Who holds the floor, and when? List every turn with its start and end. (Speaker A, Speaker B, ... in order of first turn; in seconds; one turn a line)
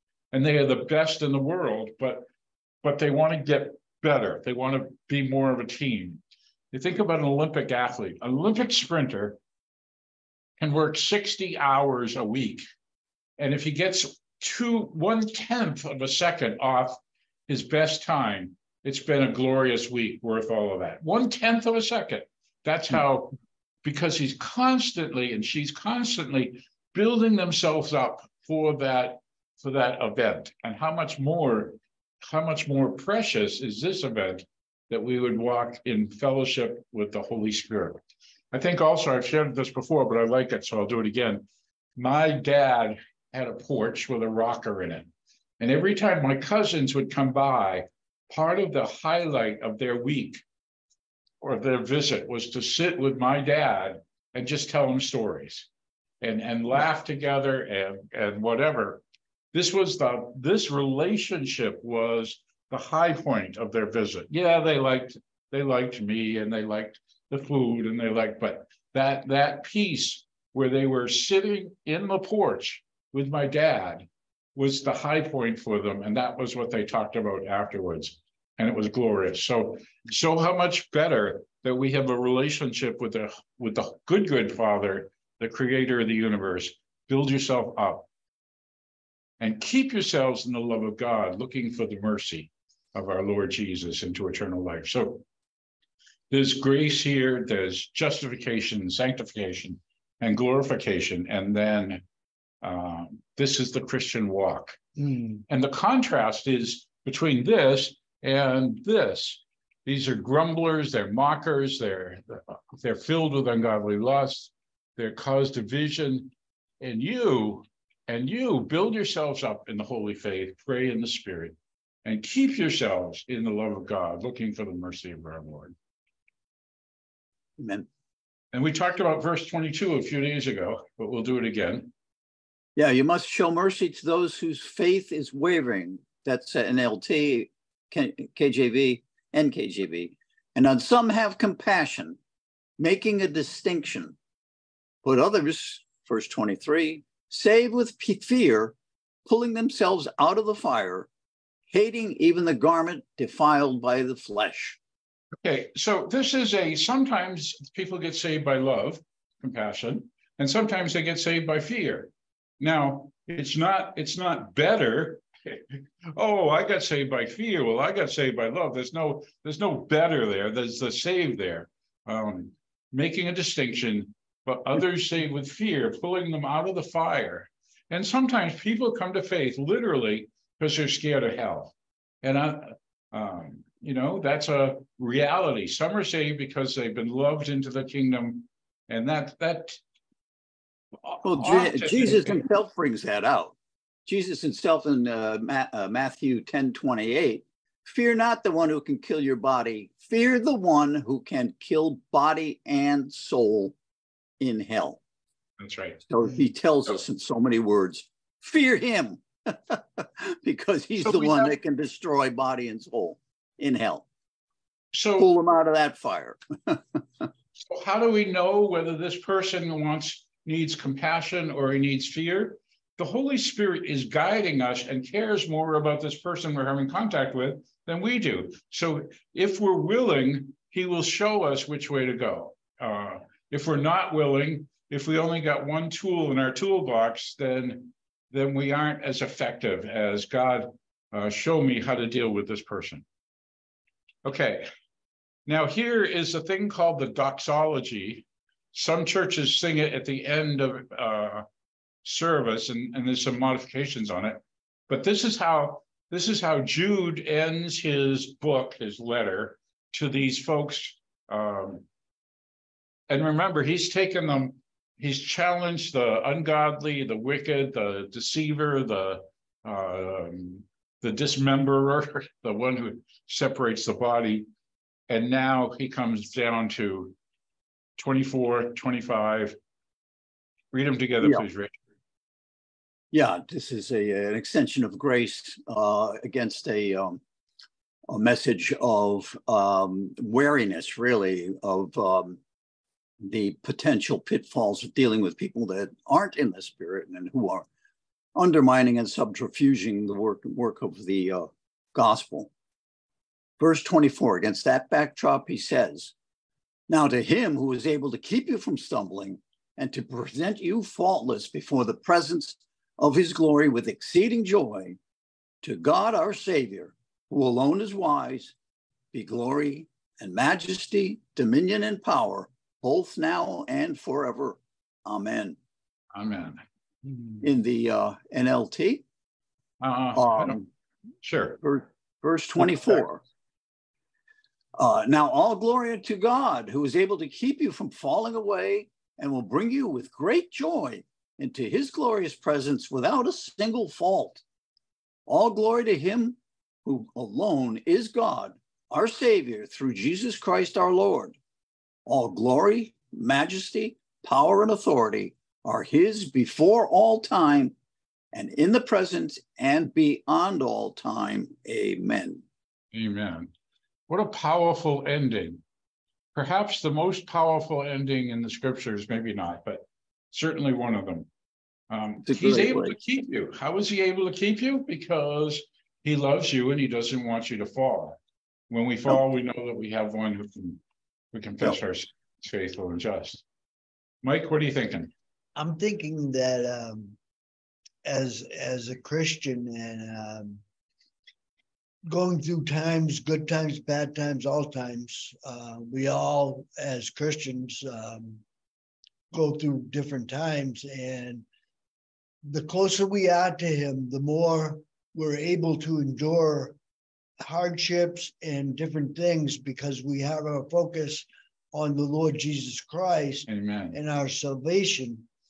Speaker A: 0.3-2.2
Speaker A: 2.8-6.2
Speaker A: 6.7-9.4
Speaker A: 10.6-12.6
Speaker A: 13.4-50.4
Speaker A: 51.4-55.7
Speaker A: 56.2-88.1
Speaker A: 89.4-95.2
Speaker A: 96.3-102.0
Speaker A: 102.6-104.8
Speaker B: 105.0-105.4
Speaker A: 105.5-125.7
Speaker C: 127.6-127.9
Speaker A: 128.5-131.9
Speaker C: 132.8-142.2
Speaker C: 142.8-144.2
Speaker C: 145.0-151.1
Speaker C: 151.7-154.8
Speaker A: 155.4-189.8
Speaker A: 191.0-192.4
Speaker C: 191.2-203.8
Speaker C: 204.4-205.0
Speaker A: 205.6-206.0
Speaker C: 206.1-214.1
Speaker A: 211.0-211.5
Speaker A: 214.9-215.3
Speaker C: 215.2-217.0
Speaker A: 217.5-243.0
Speaker A: 244.2-244.7
Speaker A: 245.4-251.4
Speaker A: 252.0-261.8
Speaker A: 263.1-274.5
Speaker A: 275.1-277.1
Speaker A: 278.0-279.6
Speaker A: 280.7-281.8
Speaker C: 281.2-281.4
Speaker C: 283.1-287.2
Speaker C: 288.1-292.4
Speaker C: 293.2-297.7
Speaker C: 298.3-302.5
Speaker C: 303.6-306.1
Speaker C: 306.9-315.0
Speaker C: 315.6-318.6
Speaker C: 319.1-325.6
Speaker A: 326.1-326.6
Speaker C: 327.4-329.0
Speaker A: 329.8-330.7
Speaker C: 330.1-330.6
Speaker A: 331.2-331.6
Speaker C: 331.6-333.2
Speaker C: 334.8-344.4
Speaker C: 345.3-351.4
Speaker C: 352.1-357.7
Speaker C: 358.3-362.4
Speaker A: 362.9-363.5
Speaker A: 364.1-365.6
Speaker A: 366.3-371.3
Speaker A: 371.9-378.2
Speaker C: 372.2-372.9
Speaker A: 378.7-380.8
Speaker A: 381.3-383.4
Speaker A: 384.2-385.1
Speaker B: 385.6-387.2
Speaker B: 388.0-390.6
Speaker B: 392.1-398.4
Speaker B: 399.3-401.4
Speaker B: 402.4-406.8
Speaker B: 407.4-415.2
Speaker A: 413.5-414.0